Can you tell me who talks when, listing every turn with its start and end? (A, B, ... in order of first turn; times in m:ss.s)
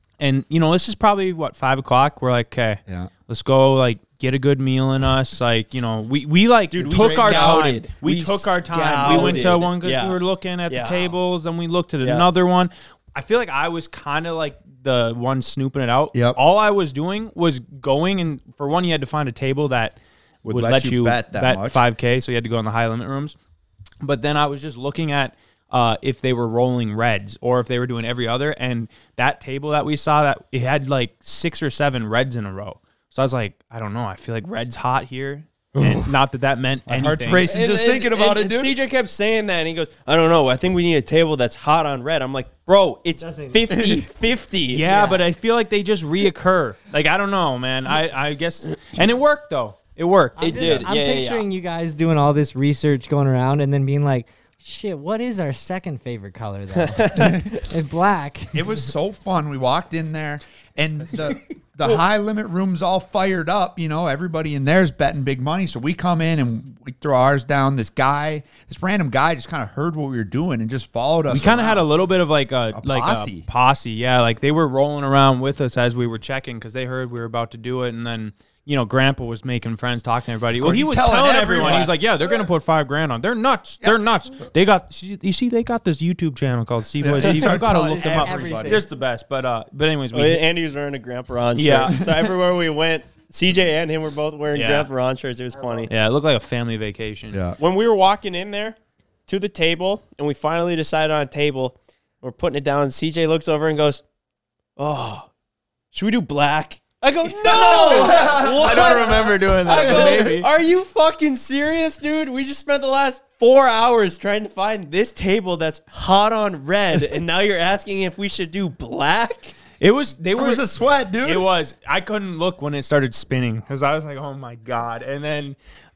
0:00.2-0:20.0 A
0:06.7-0:11.2 B
0:06.8-0:07.7 C
0:09.1-0:09.5 C
0:16.1-0:16.4 C
0:20.4-0:21.8 C
0:20.5-0:23.4 A
0:24.0-0:37.5 A
0:35.8-0:36.1 C
0:36.9-0:38.8 C
0:37.4-0:44.9 B
0:43.2-0:43.6 D
0:43.7-0:44.0 C
0:44.7-0:50.8 A
0:44.8-0:45.2 D
0:50.4-0:58.9 D
0:50.4-0:51.5 B
0:56.8-0:57.3 B
0:57.1-0:57.5 C
0:58.5-1:11.9 C
1:11.3-1:30.4 A
1:12.7-1:13.5 C
1:20.6-1:22.0 C
1:21.6-1:21.9 B
1:27.0-1:28.9 C
1:27.2-1:28.9 D
1:30.1-1:35.9 B
1:31.6-1:32.0 A
1:34.5-1:34.9 A
1:35.9-1:37.4 A
1:37.3-1:37.6 C
1:37.6-1:38.8 B
1:39.3-1:44.0 B
1:44.8-1:45.3 B
1:45.9-1:59.6 B
1:47.5-1:50.5 A
1:47.6-1:49.2 C
1:49.7-1:50.3 C
1:59.8-2:00.7 A
2:00.4-2:01.5 C
2:01.2-2:05.6 A